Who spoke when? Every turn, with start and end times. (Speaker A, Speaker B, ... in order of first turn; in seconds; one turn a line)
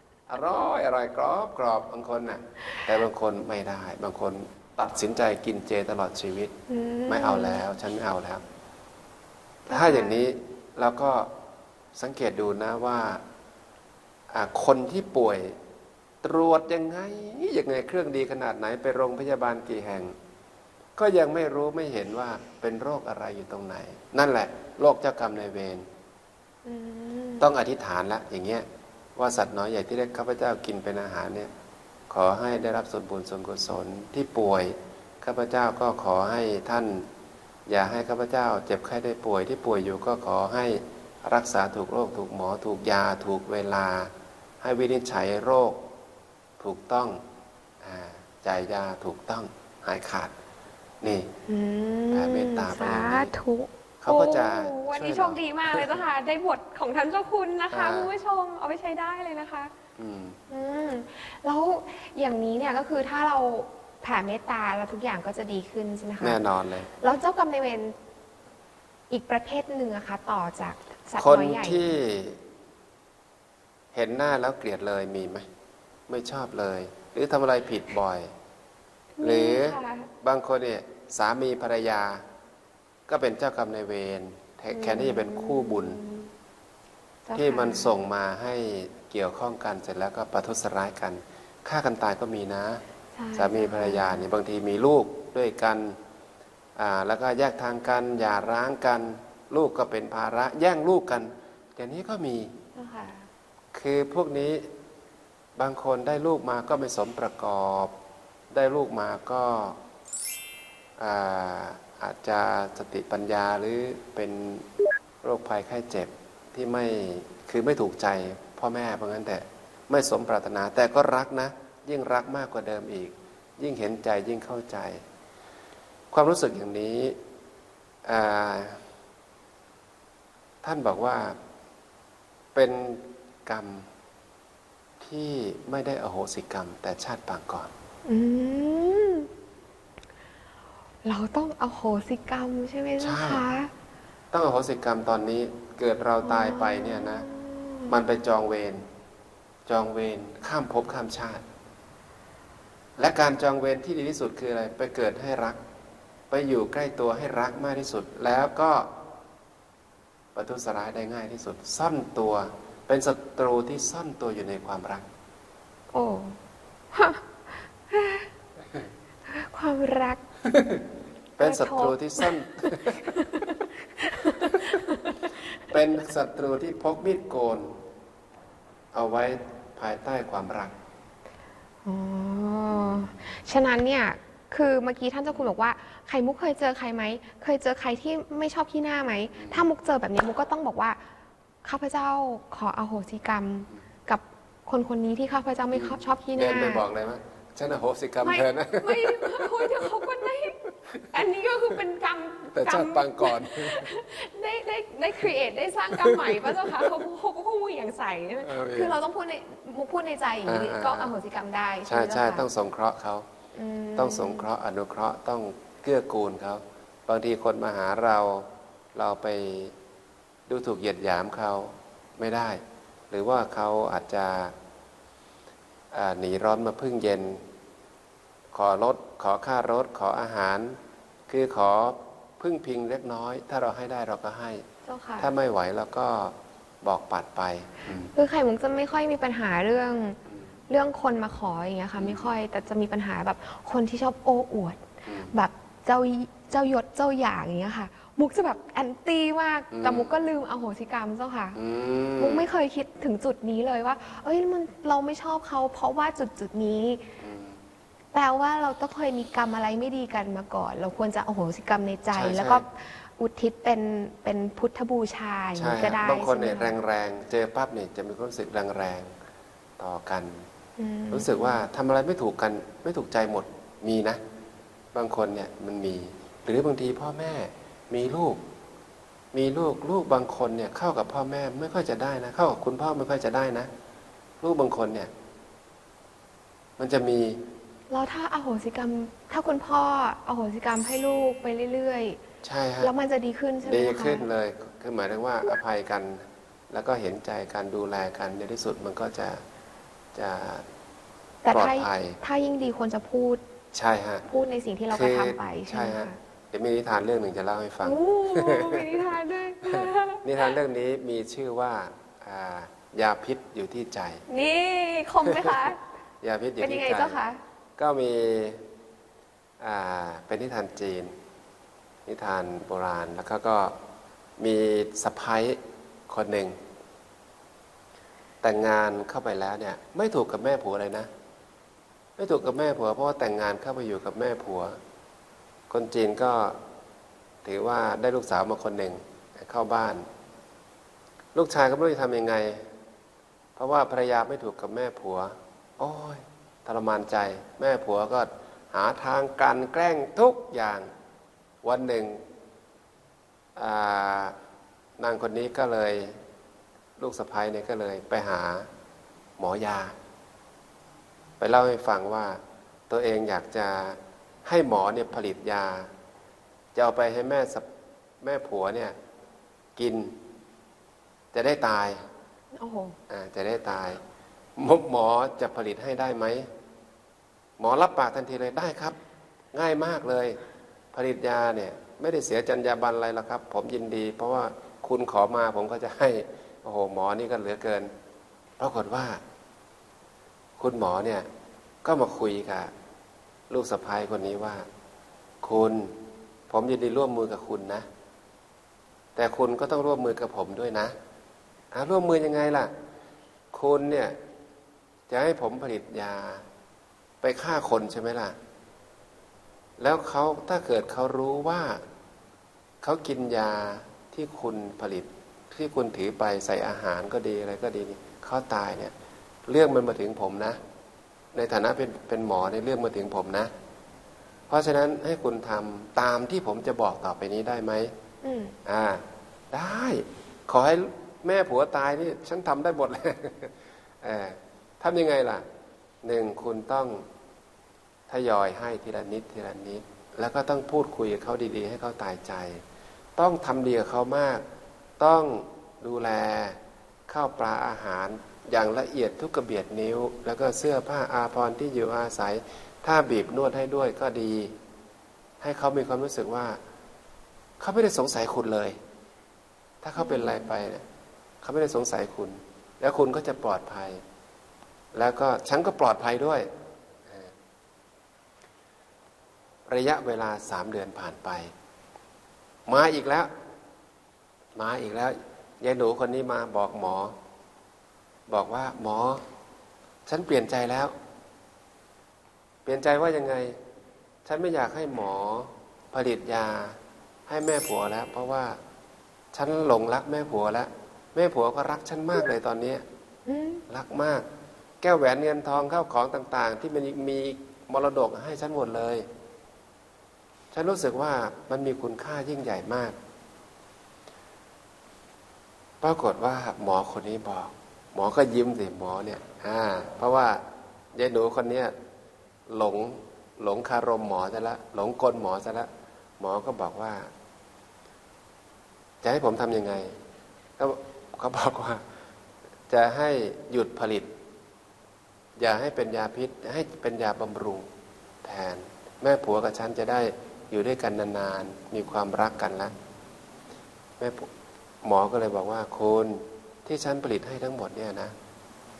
Speaker A: 0.3-6.5
Speaker B: 6.7-7.6
Speaker A: 7.1-8.4
Speaker A: 9.7-11.3
Speaker B: 9.7-10.2
Speaker A: 11.9-13.2
Speaker A: 14.3-15.6
Speaker A: 16.2-20.1
Speaker A: 21.0-25.9
Speaker B: 26.6-27.5
Speaker A: 27.4-31.5
Speaker A: 32.1-37.1
Speaker A: 37.7-45.8
Speaker A: 46.6-47.2
Speaker A: 47.8-50.3
Speaker A: 51.0-51.3
Speaker B: 51.5-59.7
Speaker A: 52.1-53.3
Speaker A: 54.0-56.0
Speaker A: 57.7-58.1
Speaker A: 60.0-60.4
Speaker B: 60.5-66.4
Speaker A: 66.2-66.9
Speaker B: 67.0-68.0
Speaker B: 69.1-71.8
Speaker A: 71.2-72.4
Speaker A: 73.9-75.5
Speaker A: 76.1-78.3
Speaker B: 79.2-80.1
Speaker A: 79.2-82.2
Speaker A: 83.1-86.0
Speaker B: 84.7-86.3
Speaker B: 87.2-88.0
Speaker A: 87.3-92.8
Speaker B: 93.1-94.2
Speaker A: 93.3-96.0
Speaker A: 96.8-102.5
Speaker B: 102.7-103.3
Speaker A: 103.7-104.7
Speaker A: 105.5-107.9
Speaker A: 108.5-109.8
Speaker A: 111.0-114.7
Speaker A: 115.2-125.0
Speaker A: 126.1-127.2
Speaker A: 128.0-128.8
Speaker A: 130.6-131.4
Speaker A: 132.5-133.9
Speaker A: 135.0-137.7
Speaker B: 138.1-139.3
Speaker B: 141.0-143.7
Speaker A: 143.0-143.4
Speaker A: 144.3-147.3
Speaker B: 146.2-147.9
Speaker A: 147.9-148.8
Speaker A: 149.7-151.4
Speaker A: 153.0-155.6
Speaker A: 156.3-158.9
Speaker A: 160.3-165.1
Speaker B: 165.9-166.4
Speaker B: 166.9-168.3
Speaker B: 169.3-170.2
Speaker A: 170.5-170.8
Speaker A: 171.4-173.2
Speaker B: 171.4-175.7
Speaker A: 175.7-177.8
Speaker A: 178.9-180.7
Speaker B: 181.8-191.0
Speaker A: 182.8-183.1
Speaker A: 189.3-189.6
Speaker B: 191.6-196.8
Speaker A: 195.7-200.1
Speaker B: 198.2-200.6
Speaker B: 201.1-212.5
Speaker A: 202.5-203.9
Speaker A: 206.1-206.8
Speaker A: 208.4-209.0
Speaker A: 210.4-211.1
Speaker A: 211.9-213.2
Speaker B: 213.5-214.5
Speaker A: 214.0-219.7
Speaker A: 220.5-224.5
Speaker A: 225.9-227.4
Speaker A: 228.5-234.6
Speaker B: 234.8-235.3
Speaker A: 235.2-238.1
Speaker B: 238.1-251.6
Speaker A: 242.0-242.3
Speaker A: 245.1-245.3
Speaker A: 249.7-250.1
Speaker A: 251.5-252.4
Speaker B: 252.2-257.1
Speaker A: 257.2-257.6
Speaker B: 258.1-266.7
Speaker A: 262.1-262.6
Speaker A: 265.6-269.1
Speaker A: 269.8-270.4
Speaker B: 270.8-271.6
Speaker A: 271.1-274.2
Speaker A: 274.9-278.4
Speaker A: 279.3-283.7
Speaker A: 284.4-285.1
Speaker A: 286.8-287.4
Speaker B: 287.9-292.2
Speaker A: 292.4-292.9
Speaker B: 292.8-294.3
Speaker A: 293.6-299.4
Speaker A: 300.1-300.6
Speaker B: 301.4-303.4
Speaker A: 301.5-302.2
Speaker A: 303.7-304.2
Speaker B: 304.2-306.2
Speaker A: 304.9-308.9
Speaker B: 307.8-310.5
Speaker A: 309.7-314.2
Speaker B: 314.3-315.8
Speaker A: 315.3-315.7
Speaker A: 316.2-317.2
Speaker B: 316.6-317.4
Speaker A: 317.8-318.6
Speaker A: 319.6-321.1
Speaker A: 322.1-323.8
Speaker A: 324.4-326.6
Speaker A: 328.4-331.1
Speaker A: 332.2-334.8
Speaker A: 335.7-336.6
Speaker A: 337.4-340.1
Speaker A: 341.3-342.7
Speaker A: 343.6-350.9
Speaker A: 351.6-352.2
Speaker A: 353.6-354.3
Speaker A: 355.0-356.2
Speaker A: 357.0-358.7
Speaker A: 359.4-359.9
Speaker A: 361.4-365.9
Speaker A: 366.7-367.6
Speaker A: 368.2-368.9
Speaker A: 369.8-370.1
Speaker A: 371.3-372.0
Speaker B: 372.5-372.9
Speaker A: 373.1-374.0
Speaker A: 374.6-376.5
Speaker A: 377.6-379.0
Speaker A: 379.5-380.4
Speaker A: 380.9-387.9
Speaker A: 388.6-389.2
Speaker A: 390.6-391.3
Speaker A: 391.8-392.7
Speaker A: 393.5-394.6
Speaker A: 395.4-395.9
Speaker A: 396.5-397.9
Speaker A: 399.1-400.9
Speaker A: 401.7-402.7
Speaker A: 403.5-404.1
Speaker A: 405.1-406.4
Speaker A: 407.2-408.4
Speaker A: 409.8-411.8
Speaker A: 412.8-418.9
Speaker A: 419.4-420.6
Speaker A: 421.3-423.5
Speaker A: 424.5-427.9
Speaker B: 428.2-428.6
Speaker A: 428.6-435.4
Speaker A: 436.0-437.0
Speaker A: 438.1-442.6
Speaker A: 443.1-444.4
Speaker A: 445.0-454.5
Speaker A: 455.4-456.6
Speaker A: 457.6-458.8
Speaker A: 459.8-460.8
Speaker B: 460.0-460.4
Speaker A: 461.4-464.0
Speaker A: 464.9-466.5
Speaker A: 469.7-471.5
Speaker A: 472.6-473.3
Speaker A: 474.5-477.1
Speaker A: 478.3-479.2
Speaker A: 480.1-480.9
Speaker A: 482.6-483.6
Speaker A: 484.2-488.6
Speaker A: 489.3-492.8
Speaker B: 493.2-493.6
Speaker A: 493.7-494.2
Speaker A: 494.8-499.1
Speaker A: 500.5-502.9
Speaker A: 505.8-510.4
Speaker A: 510.9-511.7
Speaker A: 512.5-515.7
Speaker A: 516.2-517.1
Speaker A: 519.0-520.0
Speaker A: 520.6-521.8
Speaker A: 522.7-524.1
Speaker A: 525.4-527.7
Speaker A: 528.2-532.7
Speaker A: 534.0-534.3
Speaker A: 534.8-538.1